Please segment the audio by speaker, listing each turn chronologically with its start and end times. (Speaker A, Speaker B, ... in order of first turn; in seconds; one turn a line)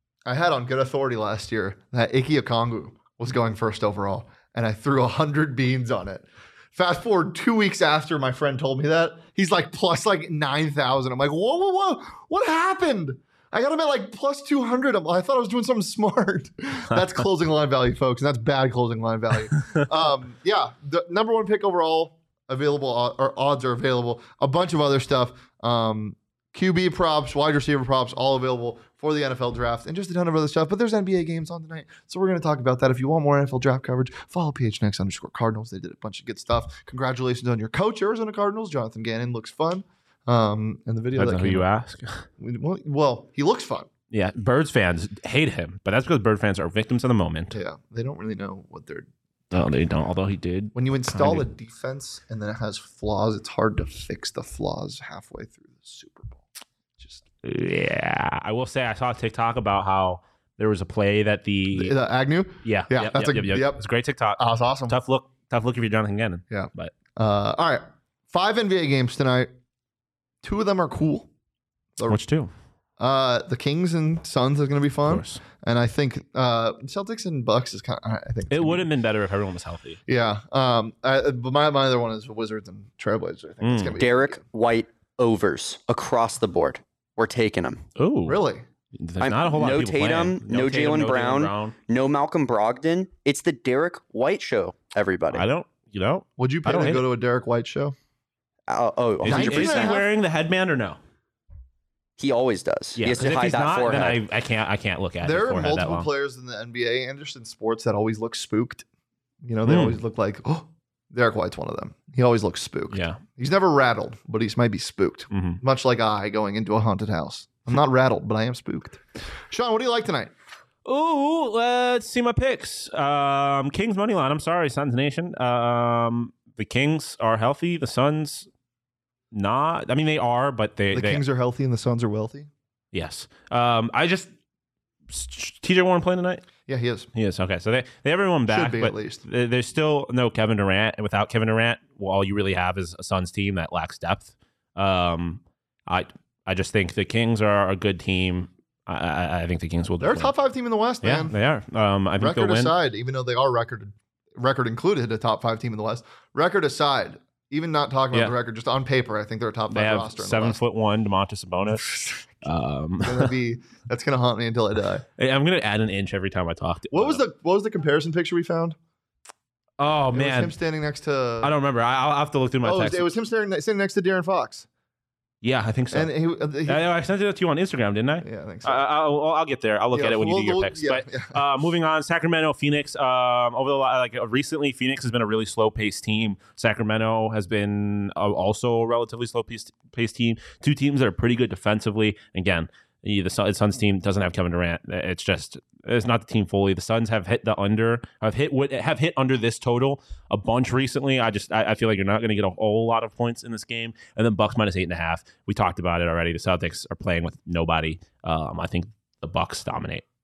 Speaker A: 0.3-41.7
Speaker B: 41.2-42.3
Speaker A: 42.4-43.9
Speaker B: 44.1-47.6
Speaker A: 47.5-49.1
Speaker B: 49.5-51.5
Speaker A: 50.8-56.4
Speaker A: 57.0-57.2
Speaker B: 57.4-62.0
Speaker A: 61.7-63.9
Speaker B: 62.6-66.9
Speaker A: 64.4-65.0
Speaker A: 66.5-69.5
Speaker A: 70.4-71.3
Speaker A: 72.0-72.2
Speaker B: 72.1-72.5
Speaker A: 73.0-78.9
Speaker B: 75.0-75.4
Speaker B: 78.5-80.0
Speaker A: 80.1-84.4
Speaker B: 83.6-84.0
Speaker C: 84.0-87.8
Speaker B: 88.0-91.8
Speaker A: 88.3-88.7
Speaker C: 89.2-95.5
Speaker B: 95.3-97.1
Speaker A: 96.4-98.0
Speaker C: 98.7-100.0
Speaker B: 99.2-101.0
Speaker A: 99.2-100.1
Speaker C: 102.2-104.2
Speaker B: 103.0-106.1
Speaker A: 105.2-108.8
Speaker A: 109.4-120.3
Speaker B: 109.7-110.0
Speaker B: 112.9-113.2
Speaker B: 115.3-115.6
Speaker B: 120.8-128.5
Speaker B: 129.3-131.2
Speaker A: 130.9-132.5
Speaker B: 132.9-134.3
Speaker B: 135.1-136.4
Speaker A: 136.7-137.1
Speaker B: 137.2-150.3
Speaker A: 138.5-139.2
Speaker A: 150.0-151.4
Speaker B: 151.0-152.8
Speaker A: 152.2-160.6
Speaker B: 159.7-163.3
Speaker A: 163.0-165.0
Speaker B: 165.2-167.2
Speaker A: 166.9-168.8
Speaker B: 169.8-170.6
Speaker A: 170.1-171.5
Speaker B: 171.4-173.1
Speaker A: 172.6-174.7
Speaker B: 175.4-176.1
Speaker A: 175.9-176.9
Speaker B: 176.7-210.1
Speaker A: 178.2-178.8
Speaker A: 179.9-181.4